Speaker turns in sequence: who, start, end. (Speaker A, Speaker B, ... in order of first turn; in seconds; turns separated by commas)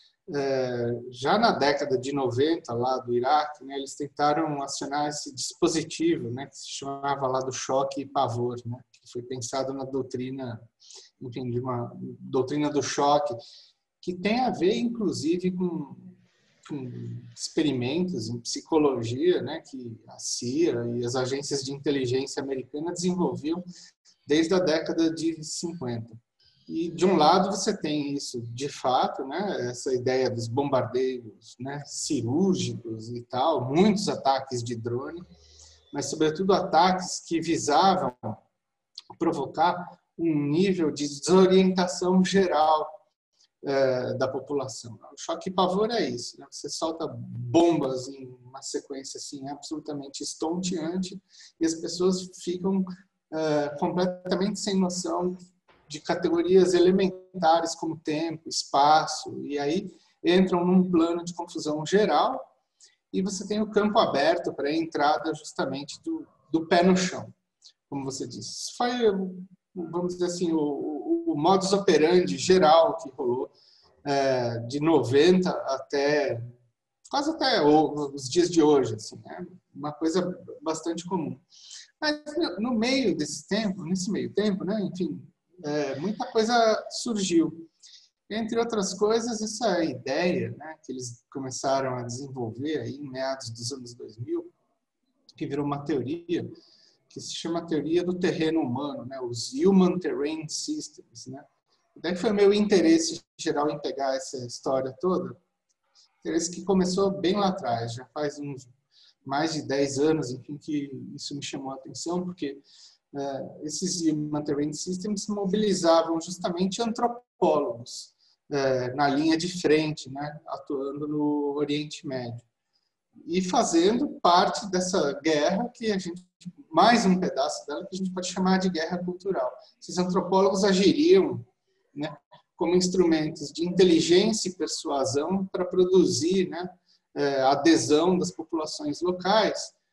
Speaker A: 0.3-10.7, Speaker A: 11.2-13.4, Speaker A: 14.0-23.6, Speaker A: 24.2-35.2, Speaker A: 35.9-38.4, Speaker A: 39.1-42.9, Speaker A: 43.6-62.5, Speaker A: 63.1-67.3, Speaker A: 67.9-73.5, Speaker A: 74.0-76.5, Speaker A: 77.1-81.4, Speaker A: 82.0-87.7, Speaker A: 88.3-94.5, Speaker A: 95.3-96.5, Speaker A: 97.1-105.4, Speaker A: 106.2-108.7, Speaker A: 109.2-112.6, Speaker A: 113.1-122.5, Speaker A: 123.2-139.7